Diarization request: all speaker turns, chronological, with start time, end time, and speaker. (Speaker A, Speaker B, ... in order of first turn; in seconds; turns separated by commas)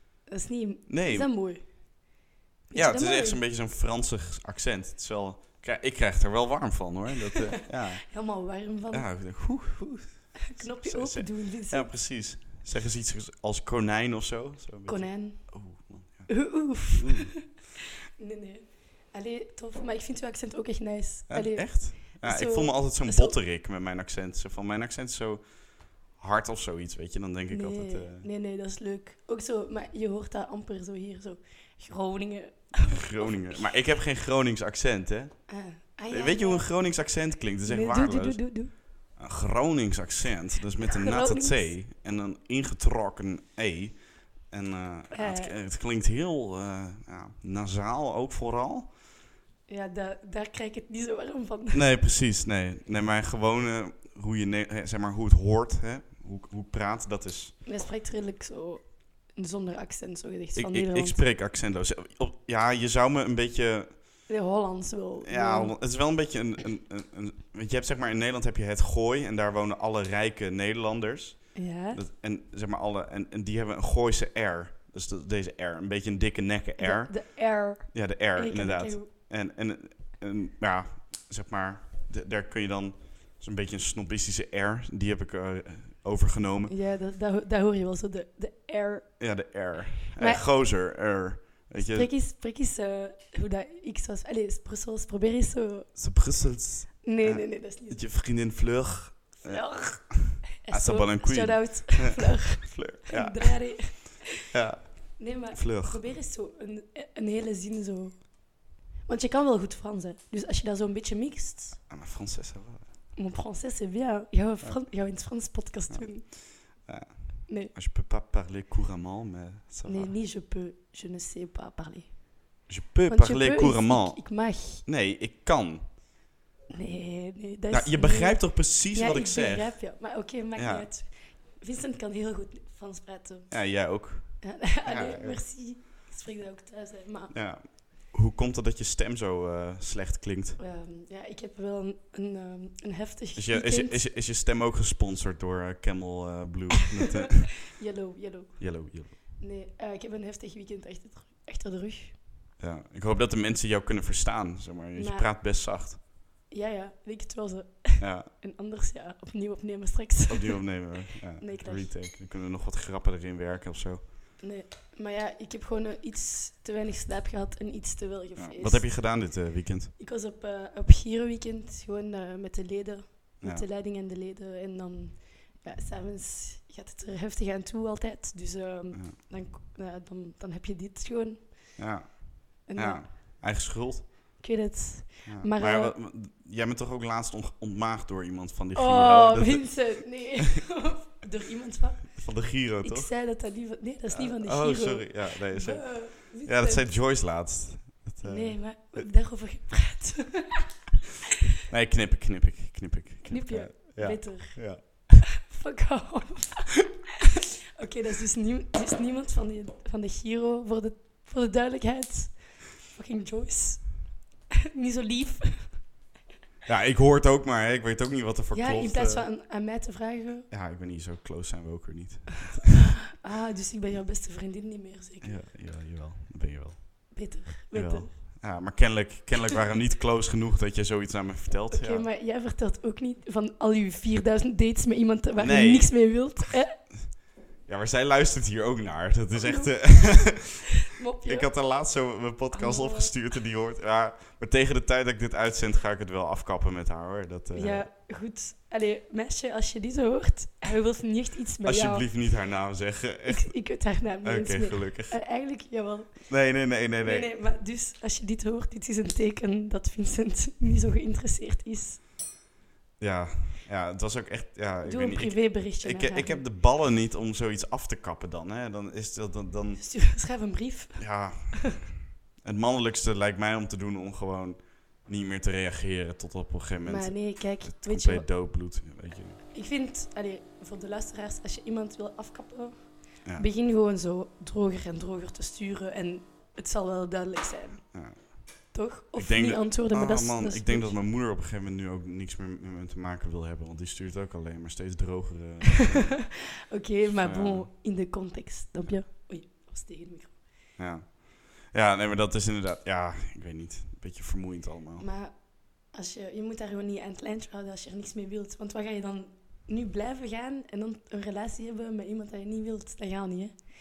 Speaker A: 0.3-1.6, Speaker B: 0.9-1.3, Speaker A: 2.7-3.4, Speaker B: 2.7-8.1, Speaker A: 7.6-9.1, Speaker B: 8.9-17.5, Speaker A: 10.4-11.9, Speaker A: 14.9-15.5, Speaker A: 16.3-17.6, Speaker A: 18.2-23.4, Speaker B: 21.3-25.5, Speaker B: 26.1-28.3, Speaker A: 27.5-33.7, Speaker B: 32.8-35.5, Speaker A: 35.5-36.7, Speaker B: 36.1-44.0, Speaker A: 37.6-38.7, Speaker A: 40.9-41.7, Speaker B: 44.5-48.9, Speaker A: 45.1-45.5, Speaker A: 49.7-51.9, Speaker B: 51.7-57.5, Speaker A: 57.6-61.2, Speaker B: 60.5-64.0, Speaker A: 64.3-65.7, Speaker B: 65.2-86.7, Speaker A: 71.5-72.0, Speaker A: 76.8-79.1, Speaker A: 86.7-89.1, Speaker B: 89.2-92.1, Speaker A: 90.2-90.5, Speaker A: 91.8-95.9, Speaker B: 96.0-106.0, Speaker A: 97.0-98.0, Speaker A: 99.4-104.3, Speaker A: 105.2-111.8, Speaker B: 111.9-112.9, Speaker A: 113.2-116.3, Speaker B: 115.9-120.1, Speaker A: 117.5-117.7, Speaker A: 119.9-122.2, Speaker B: 122.7-125.8, Speaker A: 123.1-124.8, Speaker A: 126.7-133.5, Speaker B: 127.7-129.9, Speaker B: 130.6-130.9, Speaker B: 133.5-135.4, Speaker A: 134.4-137.3, Speaker B: 137.3-140.6, Speaker A: 140.6-144.0, Speaker B: 143.3-147.7, Speaker A: 147.6-152.2, Speaker B: 148.6-149.1, Speaker B: 152.6-156.0, Speaker A: 154.9-155.3, Speaker A: 156.5-161.9, Speaker B: 158.0-158.3, Speaker B: 160.3-164.0, Speaker A: 164.4-168.9, Speaker B: 168.4-169.9, Speaker A: 170.0-181.8, Speaker B: 173.4-173.7, Speaker B: 181.8-184.1, Speaker A: 182.7-183.1, Speaker A: 184.4-185.9, Speaker B: 185.2-189.9, Speaker A: 188.8-192.3, Speaker B: 192.1-193.1, Speaker A: 192.8-196.9, Speaker B: 194.1-199.1, Speaker A: 198.2-200.8, Speaker B: 201.6-204.8, Speaker A: 203.3-206.9, Speaker A: 207.8-214.2, Speaker A: 214.7-215.9, Speaker B: 216.7-219.3, Speaker A: 218.5-220.5, Speaker B: 220.5-222.9, Speaker A: 223.1-225.4, Speaker B: 225.2-232.1, Speaker A: 227.1-228.2, Speaker A: 231.7-236.8, Speaker B: 235.4-236.3, Speaker B: 237.6-247.9, Speaker A: 239.4-241.5, Speaker A: 242.5-243.1, Speaker A: 247.5-252.1, Speaker B: 251.6-253.7, Speaker A: 253.2-256.3, Speaker B: 254.2-255.2, Speaker B: 256.3-257.3, Speaker A: 257.0-262.0, Speaker B: 263.0-269.8, Speaker A: 264.9-266.4, Speaker A: 269.8-271.8, Speaker B: 271.0-279.4, Speaker A: 276.9-278.3, Speaker A: 279.5-287.8, Speaker B: 287.9-288.3, Speaker A: 288.7-290.9, Speaker B: 289.1-296.3, Speaker A: 295.8-300.4, Speaker B: 297.2-297.7, Speaker B: 300.8-305.1, Speaker A: 305.0-313.6